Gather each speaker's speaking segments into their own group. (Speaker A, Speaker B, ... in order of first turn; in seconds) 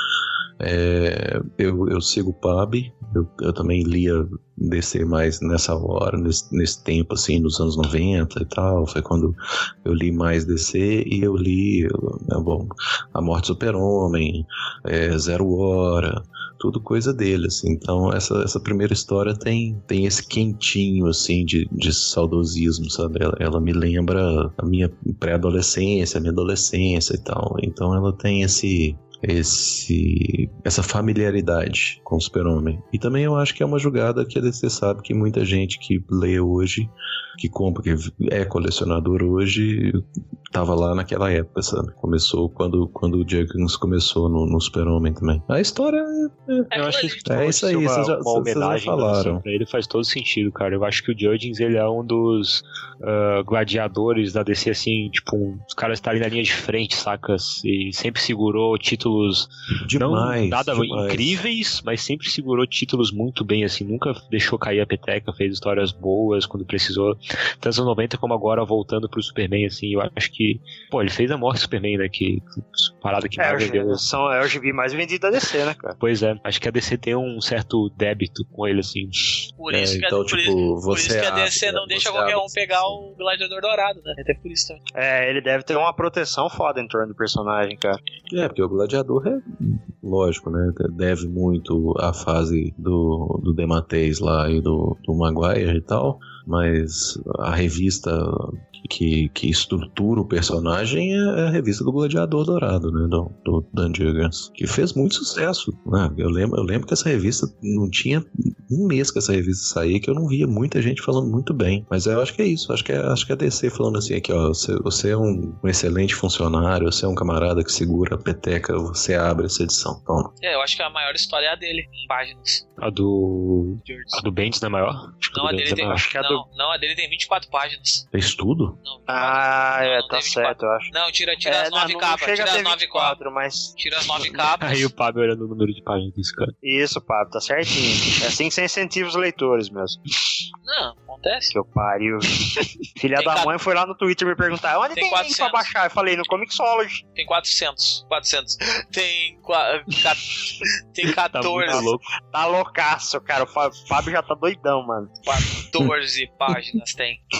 Speaker A: 0.6-46.7, 47.2-49.4, 59.9-61.4, 79.7-83.0, 88.3-120.3, 128.1-128.8
Speaker B: 46.7-47.2, 79.6-84.8, 120.4-122.7, 123.8-124.2, 125.3-128.1, 128.8-133.2, 133.8-134.9, 140.7-141.5, 143.2-143.5, 144.9-145.7, 147.2-151.9, 155.3-157.2
Speaker C: 46.7-74.0, 76.0-79.5, 122.8-126.0, 134.6-136.6, 151.1-152.0
Speaker D: 73.4-76.0, 85.0-88.0, 125.8-126.4, 129.1-130.9, 131.4-133.8, 136.6-140.0, 141.5-147.0, 151.7-155.2